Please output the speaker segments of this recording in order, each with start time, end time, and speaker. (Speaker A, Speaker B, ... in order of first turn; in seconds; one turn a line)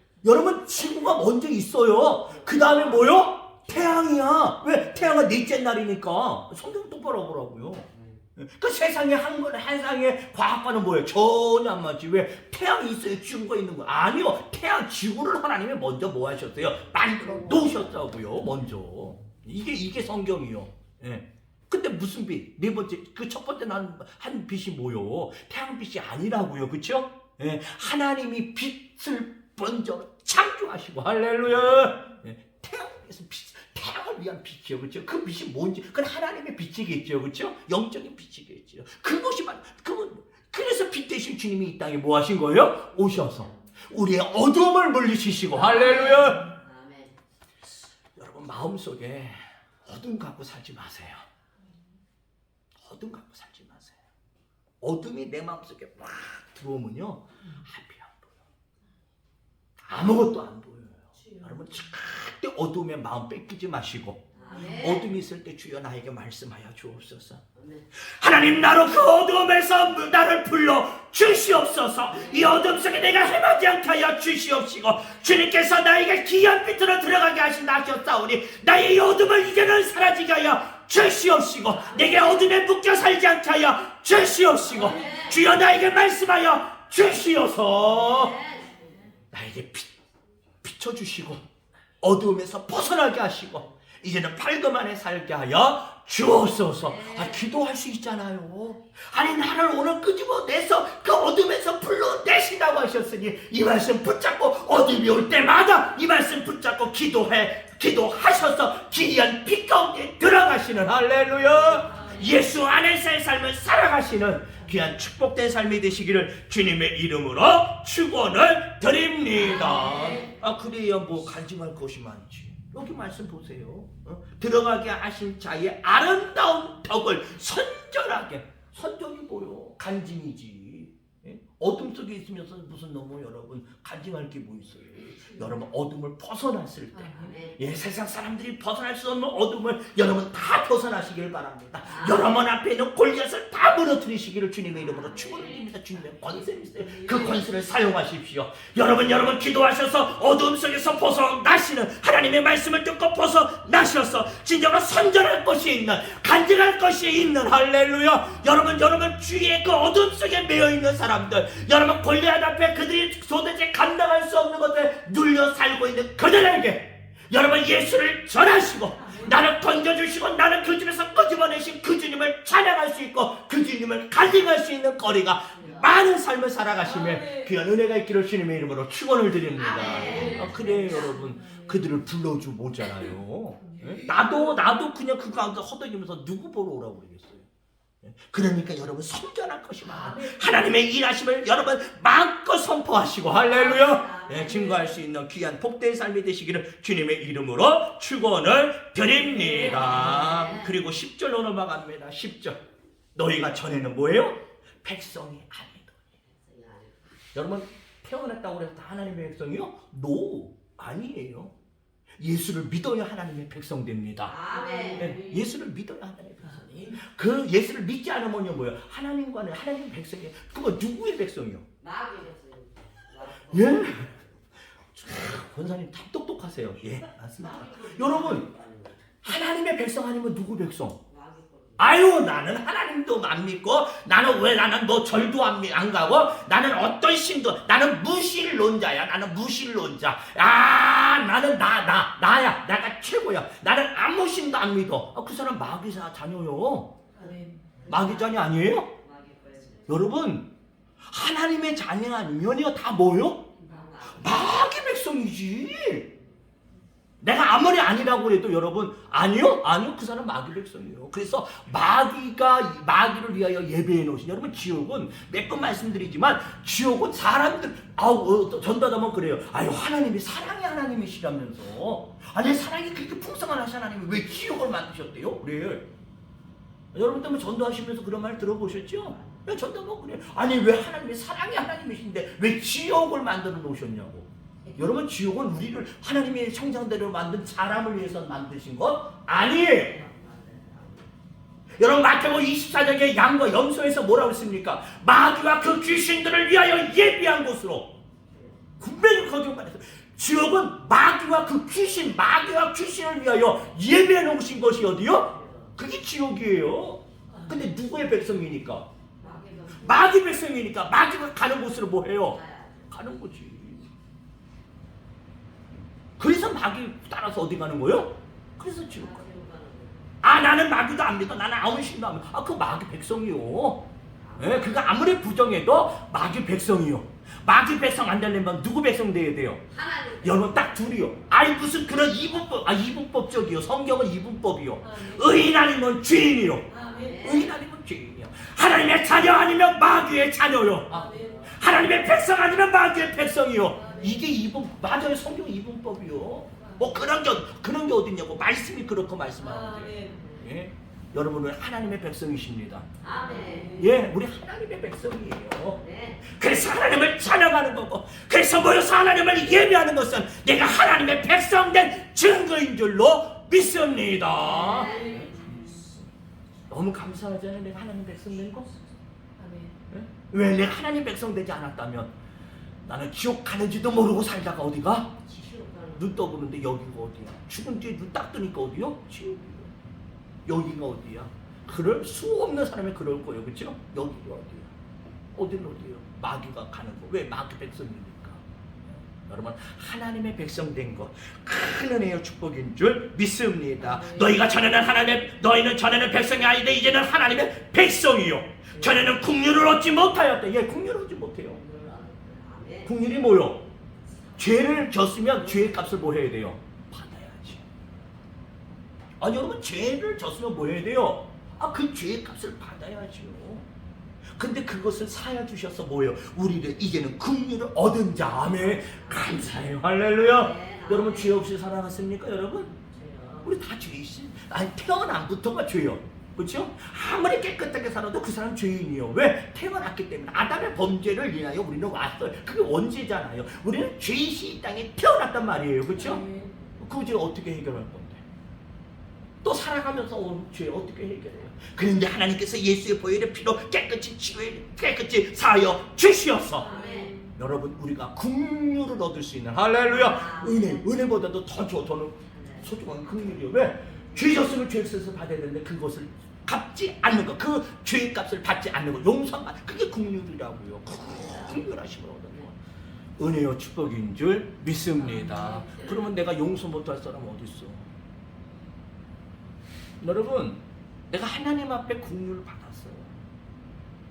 Speaker A: 0.2-46.5
Speaker B: 2.3-3.1
Speaker B: 7.9-8.2
Speaker B: 43.0-43.6
Speaker B: 45.5-47.1
Speaker C: 45.6-46.3
Speaker A: 48.2-51.3
Speaker A: 52.8-54.0
Speaker A: 54.8-58.4
Speaker A: 59.8-67.4
Speaker C: 61.2-61.6
Speaker B: 64.3-65.1
Speaker B: 67.5-67.9
Speaker A: 68.0-88.4
Speaker B: 72.2-73.0
Speaker B: 81.8-82.4
Speaker B: 84.7-85.5
Speaker B: 87.9-89.0
Speaker A: 89.3-89.9
Speaker A: 90.6-91.4
Speaker A: 92.0-187.5
Speaker B: 96.8-97.5
Speaker C: 111.8-112.3
Speaker B: 111.9-112.2
Speaker B: 119.4-120.3
Speaker C: 136.9-137.4
Speaker B: 137.0-137.6
Speaker B: 141.8-142.4
Speaker B: 144.7-145.5
Speaker C: 146.6-147.4
Speaker C: 169.0-169.4
Speaker B: 175.6-175.8
Speaker C: 176.8-177.5
Speaker B: 179.6-181.1
Speaker C: 179.8-182.0
Speaker C: 183.6-184.4
Speaker A: 188.0-202.6
Speaker C: 189.8-190.4
Speaker B: 193.3-195.0
Speaker B: 199.5-200.8
Speaker A: 203.2-206.1
Speaker B: 206.2-207.0
Speaker A: 207.3-211.5
Speaker A: 212.2-214.4
Speaker B: 214.2-215.2
Speaker C: 214.5-215.4
Speaker A: 214.9-221.7
Speaker C: 216.5-217.0
Speaker B: 221.8-224.4
Speaker A: 223.5-224.1
Speaker A: 224.9-228.5
Speaker B: 227.4-229.0
Speaker A: 229.2-231.0
Speaker B: 231.1-232.0
Speaker A: 231.8-246.9
Speaker C: 247.2-247.7
Speaker B: 247.2-250.1
Speaker A: 247.9-248.9
Speaker A: 249.9-250.5
Speaker A: 251.1-253.5
Speaker B: 253.6-254.7
Speaker A: 254.1-256.1
Speaker B: 256.0-256.4
Speaker A: 257.2-275.9
Speaker A: 276.9-290.0
Speaker B: 279.1-279.4
Speaker B: 289.7-291.1
Speaker A: 291.8-298.0
Speaker B: 298.3-298.6
Speaker A: 298.8-308.9
Speaker B: 305.0-305.7
Speaker C: 307.3-307.7
Speaker B: 309.2-310.1
Speaker C: 309.2-309.7
Speaker A: 309.8-313.9
Speaker B: 312.3-313.1
Speaker A: 316.2-319.2
Speaker B: 318.8-320.1
Speaker A: 320.2-329.6
Speaker B: 324.2-324.9
Speaker B: 329.7-330.8
Speaker A: 330.2-352.9
Speaker C: 334.8-335.5
Speaker C: 336.7-337.3
Speaker B: 336.8-337.5
Speaker C: 340.9-341.5
Speaker B: 340.9-341.6
Speaker C: 343.7-344.3
Speaker C: 346.6-346.9
Speaker C: 349.4-350.3
Speaker B: 350.1-350.5
Speaker B: 353.0-353.8
Speaker C: 353.1-353.9
Speaker A: 353.7-365.6
Speaker B: 355.8-356.3
Speaker B: 364.4-365.3
Speaker C: 364.6-366.1
Speaker A: 366.7-368.7
Speaker C: 369.4-369.8
Speaker A: 369.9-372.1
Speaker A: 372.9-375.2
Speaker B: 375.2-376.3
Speaker A: 375.9-379.7
Speaker A: 380.5-384.7
Speaker A: 385.3-401.6
Speaker C: 393.8-394.4
Speaker B: 401.5-403.0
Speaker A: 402.9-403.7
Speaker A: 404.4-407.6
Speaker A: 409.2-413.7
Speaker A: 414.4-422.8
Speaker B: 418.4-421.4
Speaker B: 422.8-423.5
Speaker A: 423.4-436.2
Speaker C: 435.9-436.6
Speaker A: 436.8-438.2
Speaker A: 439.4-446.7
Speaker B: 446.6-447.2
Speaker C: 446.6-447.3
Speaker A: 447.4-462.6
Speaker B: 449.8-450.9
Speaker B: 452.3-452.8
Speaker B: 461.3-461.6
Speaker A: 463.2-467.9
Speaker C: 465.1-465.6
Speaker A: 470.0-473.2